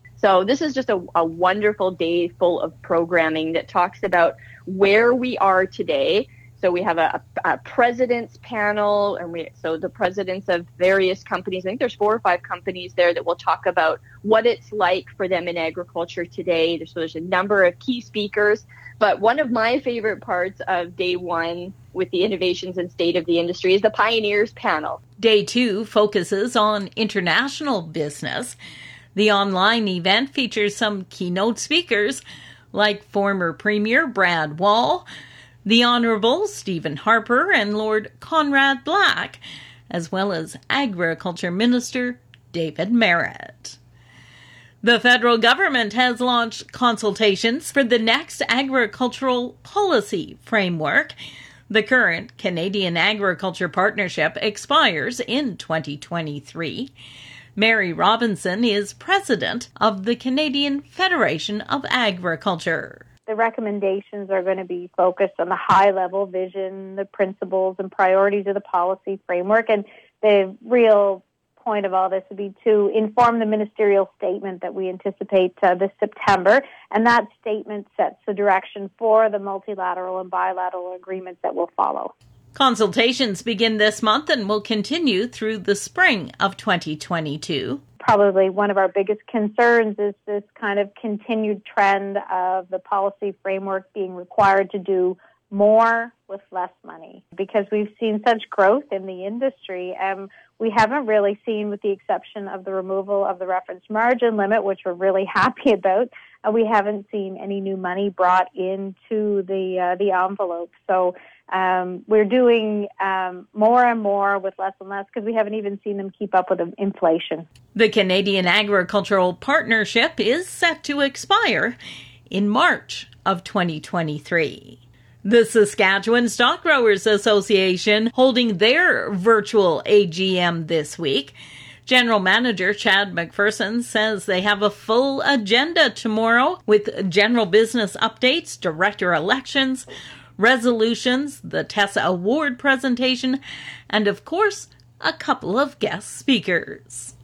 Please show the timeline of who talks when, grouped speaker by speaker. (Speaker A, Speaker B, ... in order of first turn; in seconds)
Speaker A: 0.2-25.0
Speaker B: 25.2-28.6, 29.1-32.2, 32.7-35.0, 35.6-43.8, 44.8-51.1, 51.7-56.9, 57.5-63.0, 82.5-87.8, 117.7-121.8, 122.3-131.3, 131.8-139.8, 140.4-143.4, 143.9-147.1
Speaker C: 63.3-82.1, 88.0-117.5